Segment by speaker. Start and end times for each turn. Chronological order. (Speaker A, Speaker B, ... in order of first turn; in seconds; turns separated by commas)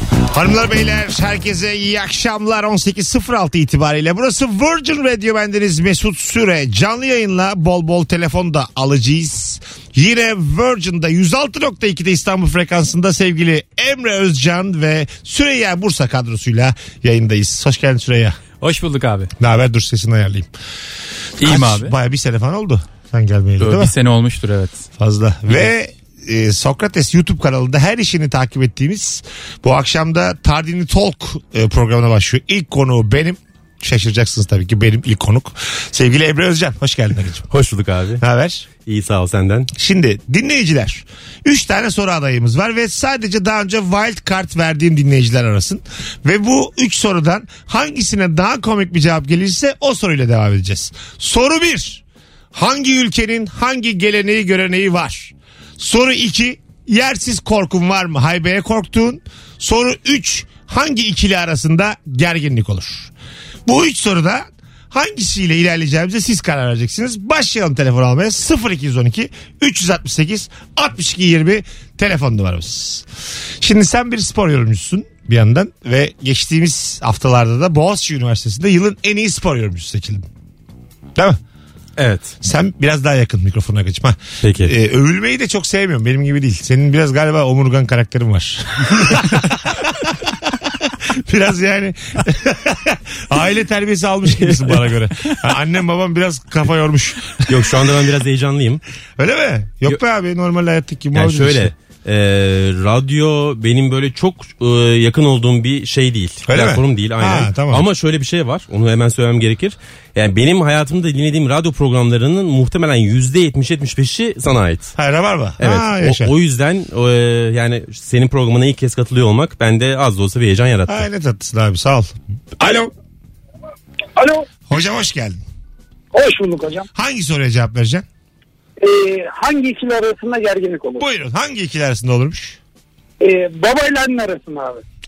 Speaker A: 0.3-18.4, Speaker B: 18.6-19.3, Speaker A: 19.4-20.5, Speaker B: 21.4-21.9, Speaker A: 21.4-23.9, Speaker B: 23.6-24.9, Speaker A: 25.0-37.5, Speaker C: 37.5-38.2, Speaker A: 38.2-38.7, Speaker C: 38.9-39.7, Speaker A: 39.8-52.0, Speaker A: 52.5-63.1, Speaker A: 63.7-73.1, Speaker A: 73.6-80.3, Speaker C: 82.0-82.3, Speaker A: 82.4-90.1, Speaker C: 84.4-84.7, Speaker A: 91.1-97.6, Speaker C: 97.5-98.8, Speaker A: 99.2-101.7, Speaker C: 101.1-114.9, Speaker A: 106.5-107.8, Speaker A: 115.0-116.3, Speaker C: 115.6-121.0, Speaker A: 120.9-122.9, Speaker A: 124.7-125.4, Speaker D: 126.1-126.9, Speaker A: 127.0-128.1, Speaker D: 128.8-131.1, Speaker A: 131.0-132.6, Speaker D: 133.2-134.8